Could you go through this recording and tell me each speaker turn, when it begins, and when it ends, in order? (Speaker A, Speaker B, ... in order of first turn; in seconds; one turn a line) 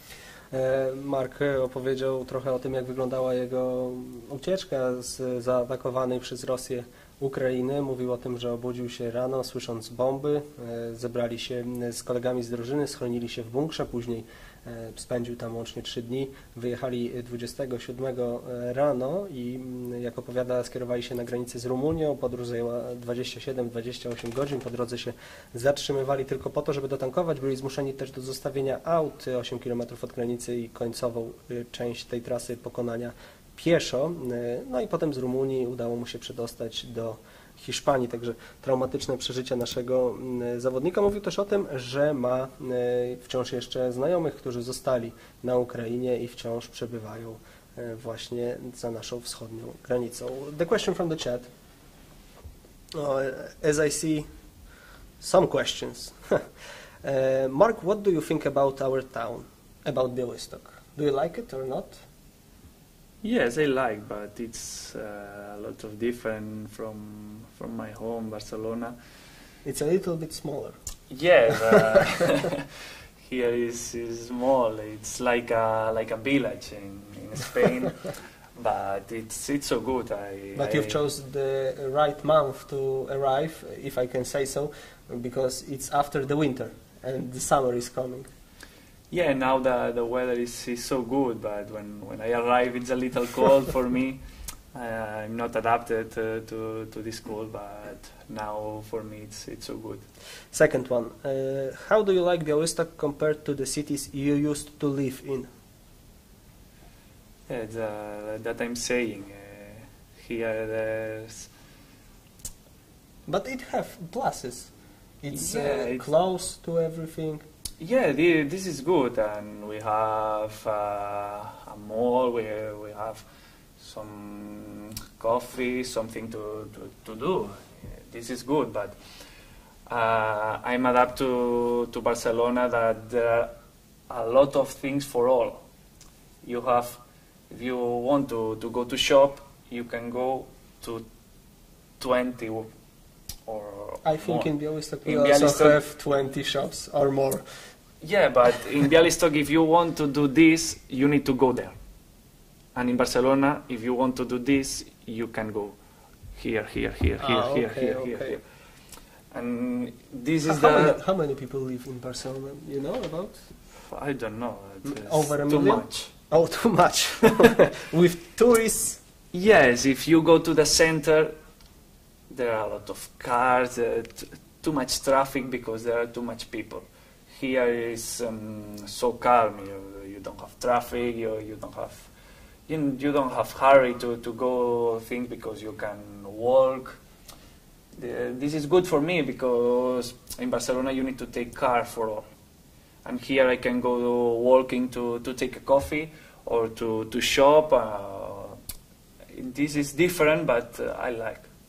Speaker A: 0.5-51.5
Speaker A: 52.9-54.3
Speaker A: 55.2-56.4
Speaker A: 57.0-62.0
Speaker B: 63.2-68.9
Speaker A: 69.6-70.8
Speaker B: 71.1-81.0
Speaker A: 80.5-88.3
Speaker B: 89.1-94.2
Speaker B: 94.7-100.0
Speaker A: 100.5-105.5
Speaker B: 107.5-111.5
Speaker A: 113.2-117.4
Speaker B: 115.3-116.0
Speaker B: 117.8-123.2
Speaker B: 123.8-128.9
Speaker B: 129.9-133.5
Speaker B: 134.1-135.6
Speaker B: 136.4-141.1
Speaker B: 142.0-142.7
Speaker B: 143.4-144.5
Speaker A: 144.0-147.4
Speaker B: 145.0-145.8
Speaker B: 148.0-151.8
Speaker B: 152.7-155.8
Speaker B: 156.4-158.4
Speaker A: 157.2-158.4
Speaker B: 159.3-161.0
Speaker A: 160.4-163.4
Speaker B: 163.8-166.1
Speaker A: 164.8-169.0
Speaker B: 169.3-171.3
Speaker B: 172.3-182.1
Speaker B: 182.7-187.0
Speaker B: 187.9-192.3
Speaker B: 193.0-198.6
Speaker B: 199.3-201.5